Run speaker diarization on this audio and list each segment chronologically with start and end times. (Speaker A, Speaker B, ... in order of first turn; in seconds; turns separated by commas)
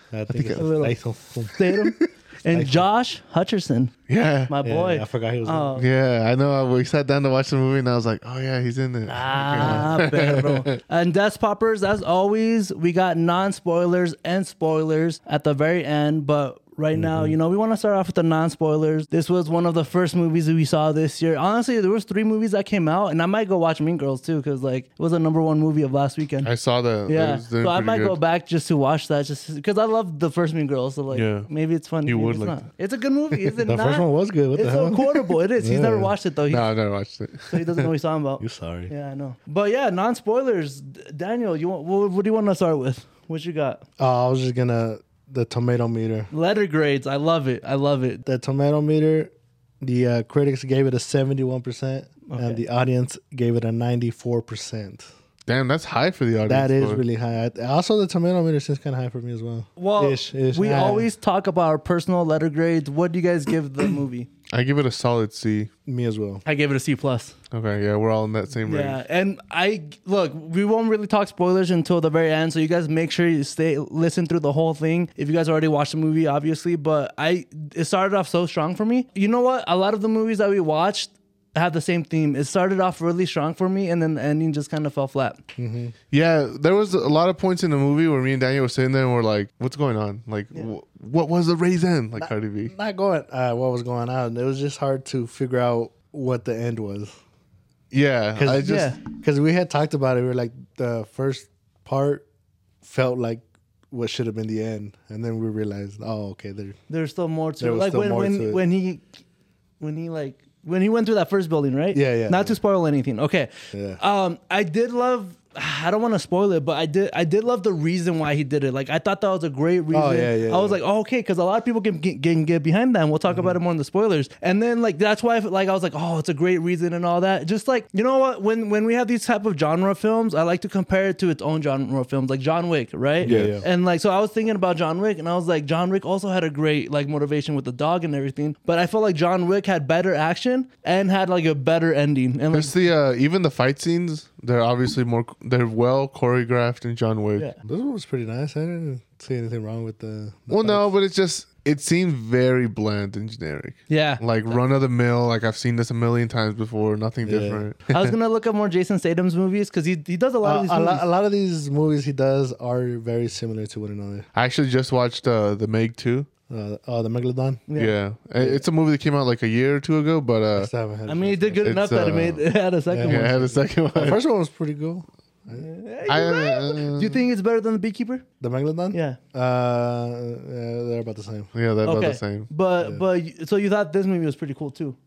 Speaker A: 0.1-1.6, Speaker B: 0.3-0.7, Speaker C: 0.5-1.0, Speaker C: 1.5-3.9, Speaker B: 1.7-2.1, Speaker A: 2.5-2.9, Speaker B: 4.1-4.5, Speaker C: 4.5-5.9, Speaker A: 4.6-5.8, Speaker B: 5.8-10.8, Speaker C: 9.1-26.5, Speaker A: 9.6-9.9, Speaker A: 17.0-17.3, Speaker B: 26.4-28.2, Speaker C: 27.1-36.7, Speaker B: 31.1-31.5, Speaker B: 32.1-32.6, Speaker A: 33.6-36.1, Speaker B: 36.5-37.9, Speaker C: 37.5-43.8, Speaker A: 38.4-38.9, Speaker A: 44.0-46.3, Speaker C: 46.3-48.2, Speaker A: 48.2-55.1, Speaker C: 52.3-52.6, Speaker B: 55.5-57.0, Speaker A: 56.5-61.1, Speaker C: 59.8-64.3, Speaker B: 64.5-65.7, Speaker A: 65.8-66.4, Speaker C: 66.4-67.3, Speaker B: 67.5-69.0, Speaker C: 68.7-85.4, Speaker A: 85.6-85.9, Speaker B: 86.1-92.7, Speaker A: 92.2-97.2, Speaker B: 97.9-99.0, Speaker A: 98.3-102.2, Speaker C: 98.6-99.0, Speaker A: 102.8-106.8, Speaker C: 106.9-109.1, Speaker A: 107.6-108.6, Speaker C: 109.8-142.7, Speaker A: 111.9-112.6, Speaker A: 113.7-114.0, Speaker A: 119.9-120.8, Speaker A: 123.3-123.6, Speaker A: 133.2-133.7, Speaker B: 133.2-133.5, Speaker B: 142.5-147.5, Speaker A: 147.6-150.9, Speaker B: 150.5-158.2, Speaker C: 153.9-154.6, Speaker A: 157.2-157.6, Speaker C: 157.9-161.0, Speaker A: 160.4-164.2, Speaker B: 164.3-166.3, Speaker A: 166.5-167.6, Speaker C: 167.7-167.9, Speaker B: 167.8-170.7, Speaker A: 168.4-168.6, Speaker A: 170.6-171.8, Speaker C: 171.1-173.6, Speaker B: 171.6-172.4, Speaker A: 172.9-173.4, Speaker B: 173.0-174.2, Speaker A: 173.9-175.7, Speaker C: 175.6-178.2, Speaker B: 176.0-177.2, Speaker A: 178.4-181.5, Speaker C: 178.9-179.2, Speaker B: 181.5-182.5, Speaker C: 181.8-185.0